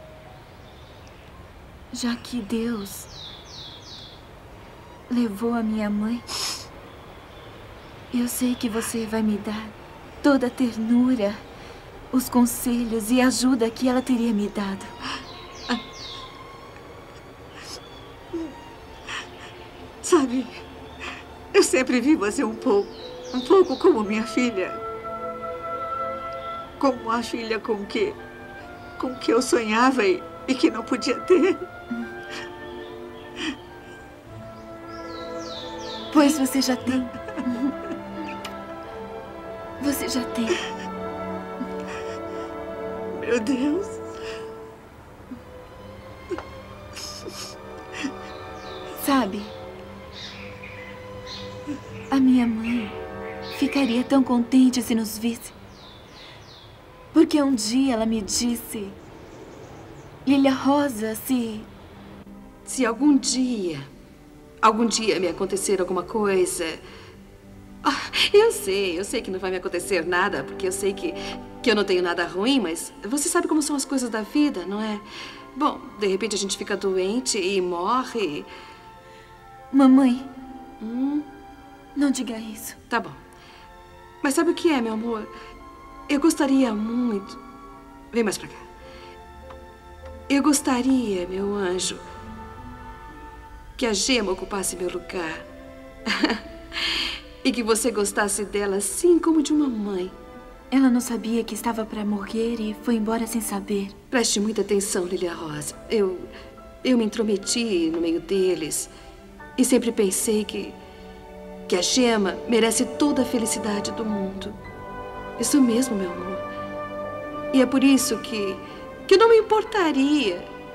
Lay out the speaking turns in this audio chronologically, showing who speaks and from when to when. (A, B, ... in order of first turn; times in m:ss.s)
0:01.9-0:03.1 A
0:05.1-0:06.2 A
0:08.1-0:11.4 A
0:12.1-0:14.9 A
0:20.0-0:20.6 B
0:21.5-0:24.8 B
0:26.8-0:28.2 B
0:29.0-0:31.6 B
0:36.1-0:37.7 A
0:39.8-0:40.6 A
0:43.1-0:44.0 B
0:49.0-0:49.5 A
0:52.1-0:53.0 A
0:53.5-0:55.5 A
0:57.1-0:59.0 A
1:00.2-1:01.7 A
1:02.6-1:03.9 C
1:04.6-1:06.8 C
1:07.8-1:18.5 C
1:19.7-1:20.3 A
1:20.8-1:21.2 C
1:22.0-1:22.8 A
1:22.9-1:23.2 C
1:24.2-1:25.3 C
1:26.1-1:27.4 C
1:28.1-1:28.6 C
1:30.3-1:32.0 C
1:33.8-1:35.5 C
1:36.1-1:40.1 C
1:40.7-1:43.9 A
1:44.1-1:46.3 C
1:46.8-1:48.9 C
1:49.6-1:50.8 C
1:51.7-1:54.6 C
1:55.4-1:56.5 C
1:57.5-2:00.5 C